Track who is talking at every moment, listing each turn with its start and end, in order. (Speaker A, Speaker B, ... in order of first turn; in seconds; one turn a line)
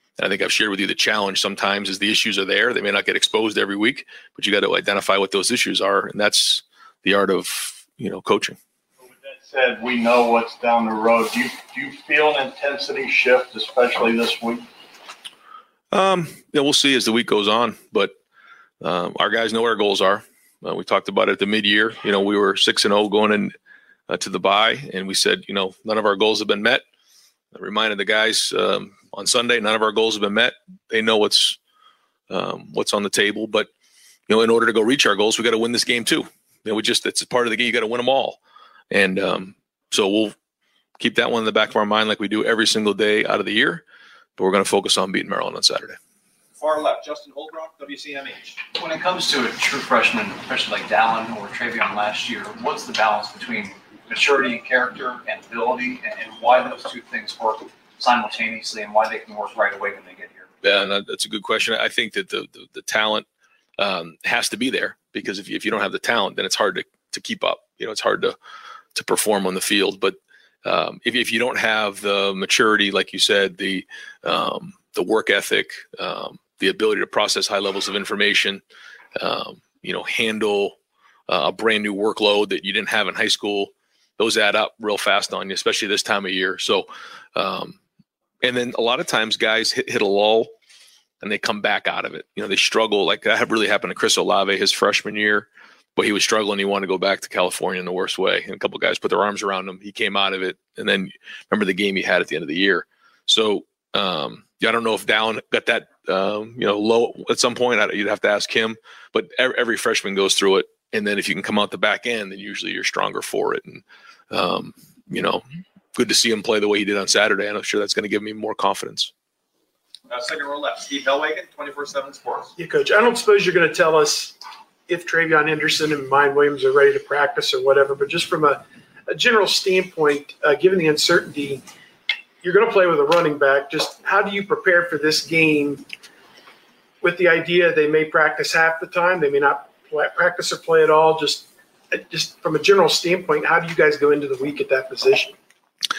Speaker A: 0.2-8.6
Speaker B: 9.0-14.7
Speaker A: 15.9-18.2
Speaker A: 18.8-23.5
Speaker A: 24.1-26.9
Speaker A: 27.5-31.6
Speaker A: 32.3-33.7
Speaker A: 34.3-38.4
Speaker A: 38.9-40.4
Speaker A: 41.0-43.8
Speaker A: 44.4-46.0
Speaker C: 46.5-48.6
Speaker D: 48.8-60.5
Speaker A: 60.6-63.3
Speaker A: 63.8-68.4
Speaker A: 69.0-78.6
Speaker A: 79.2-80.8
Speaker A: 81.3-87.8
Speaker A: 88.4-90.5
Speaker A: 91.2-115.4
Speaker A: 116.0-119.1
Speaker C: 120.1-122.5
Speaker E: 122.6-124.4
Speaker E: 124.9-131.6
Speaker E: 132.4-135.8
Speaker E: 137.0-145.4